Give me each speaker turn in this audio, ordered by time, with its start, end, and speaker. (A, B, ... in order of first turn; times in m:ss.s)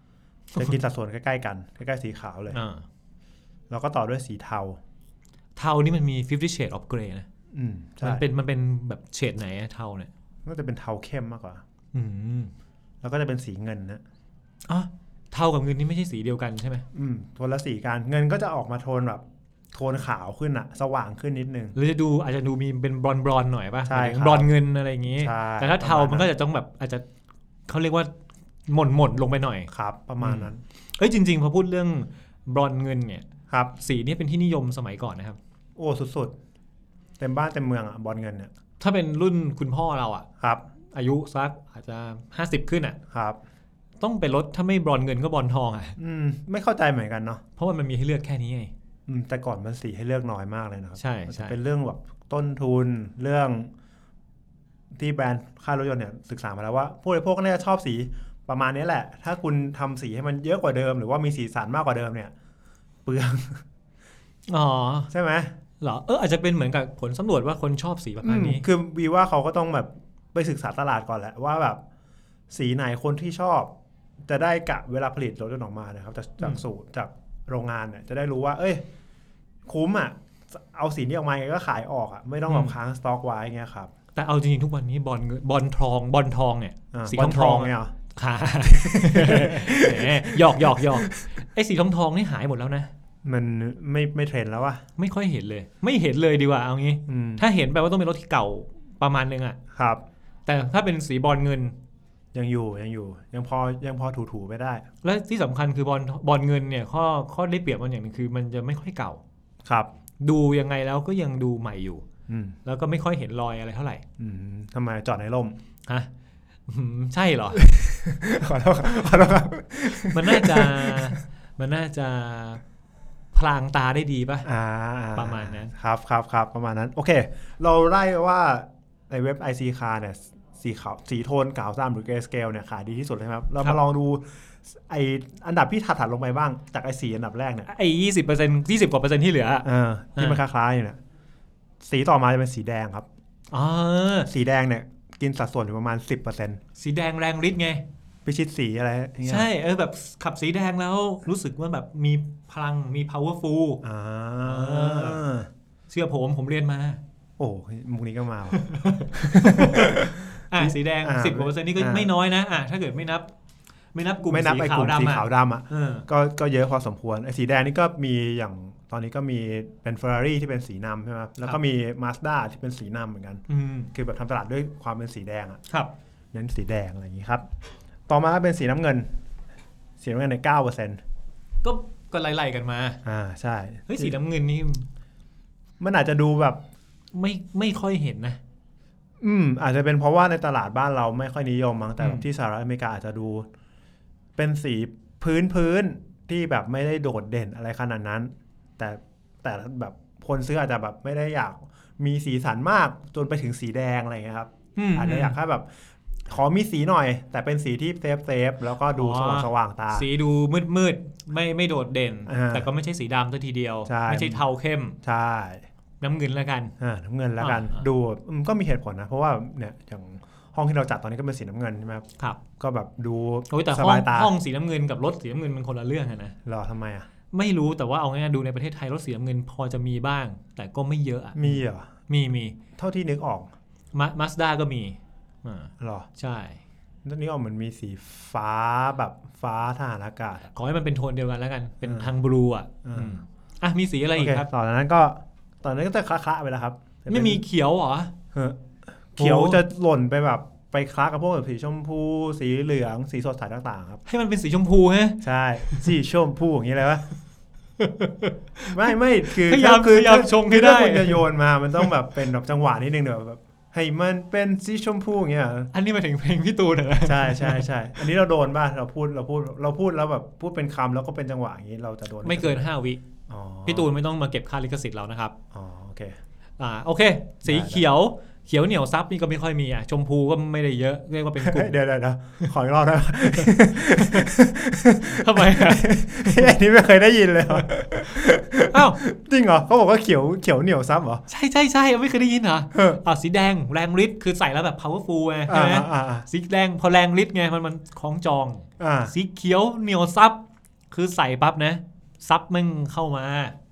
0:00.6-0:02.6 A
0:02.5-0:02.8 B
0:03.7-0:04.8 A
0:05.6-0:07.3 B
0:07.5-0:08.2 A
0:08.0-0:10.1 B
0:10.4-0:11.6 A
0:11.9-0:12.5 B
0:13.0-0:14.0 A
0:14.7-0:16.8 B
0:16.9-0:19.2 A
0:19.7-0:21.8 A
0:21.8-0:27.0 B
0:23.9-0:24.5 A
0:25.1-0:26.3 A
0:27.7-0:28.1 B
0:28.7-0:35.4 B
0:29.7-0:30.6 A
0:33.5-0:33.7 A
0:35.8-0:36.3 A
0:37.2-0:38.5 A
0:38.8-0:40.2 B
0:40.4-0:40.6 A
0:40.9-0:43.0 B
0:43.1-0:43.4 A
0:44.0-0:46.0 B
0:46.0-0:47.4 A
0:47.6-0:48.7 B
0:49.1-0:53.7 A
0:51.0-0:51.6 B
0:54.9-1:02.3 A
1:03.1-1:03.6 A
1:04.5-1:05.1 B
1:05.1-1:05.6 A
1:05.8-1:08.6 B
1:08.2-1:11.8 A
1:12.5-1:13.7 A
1:14.2-1:18.8 A
1:19.7-1:23.9 A
1:22.5-1:22.7 B
1:24.1-1:32.9 B
1:26.9-1:28.0 A
1:28.6-1:31.3 A
1:33.2-1:34.8 A
1:35.0-1:39.6 B
1:37.1-1:37.4 A
1:39.7-1:40.0 A
1:40.4-1:41.8 B
1:42.3-1:44.8 A
1:45.0-1:49.2 B
1:49.6-1:49.9 A
1:50.2-1:52.0 B
1:52.3-1:52.6 A
1:52.6-1:54.0 B
1:54.2-1:55.6 A
1:56.7-1:57.6 B
1:57.5-2:01.2 A
2:00.1-2:02.6 B
2:03.3-2:04.5 B
2:04.4-2:17.7 A
2:05.1-2:05.7 B
2:17.7-2:20.4 B
2:19.6-2:21.0 A
2:21.8-2:23.1 A
2:23.5-2:24.3 B
2:24.2-2:26.6 A
2:26.8-2:27.8 B
2:28.2-2:29.5 A
2:29.2-2:33.8 B
2:33.8-2:35.5 A
2:34.4-2:35.2 B
2:35.9-2:37.0 B
2:37.4-2:42.1 A
2:38.6-2:43.3 B
2:43.9-2:46.0 B
2:44.2-2:55.6 A
2:53.5-2:53.9 B
2:56.3-2:57.4 A
2:58.1-2:59.1 A
3:00.0-3:01.0 A
3:01.6-3:03.0 B
3:03.0-3:04.2 A
3:03.9-3:04.8 B
3:05.8-3:06.6 A
3:07.1-3:08.4 B
3:09.2-3:13.5 A
3:12.0-3:12.3 B
3:14.4-3:25.7 A
3:24.8-3:25.4 B
3:26.3-3:30.1 A
3:28.9-3:35.0 B
3:32.3-3:32.7 A
3:33.9-3:34.4 A
3:35.0-3:35.6 A
3:36.0-3:36.7 B
3:36.8-3:42.0 A
3:37.4-3:37.8 B
3:42.6-3:44.3 A
3:43.5-3:46.4 B
3:46.4-3:47.1 A
3:47.3-3:52.6 B
3:51.4-3:51.9 A
3:52.8-3:53.5 A
3:53.9-3:56.6 B
3:55.8-3:56.1 A
3:57.0-4:00.5 A
4:00.5-4:04.5 B
4:01.8-4:02.1 A
4:02.8-4:03.2 A
4:04.2-4:07.4 A
4:07.1-4:08.1 B
4:08.3-4:14.0 A
4:09.2-4:09.6 B
4:14.1-4:15.9 B
4:15.2-4:17.0 A
4:17.8-4:21.3 B
4:18.7-4:25.7 A
4:25.7-4:27.7 B
4:27.0-4:32.6 A
4:32.2-4:33.0 B
4:33.3-4:33.9 A
4:33.7-4:35.3 B
4:35.5-4:36.2 A
4:36.6-4:41.8 B
4:37.4-4:37.8 A
4:41.4-4:51.2 A
4:43.3-4:44.3 B
4:45.1-4:46.5 B
4:48.7-4:49.0 B
4:51.3-5:03.6 B
4:52.7-4:53.0 A
4:55.5-4:56.3 A
4:58.8-4:59.1 A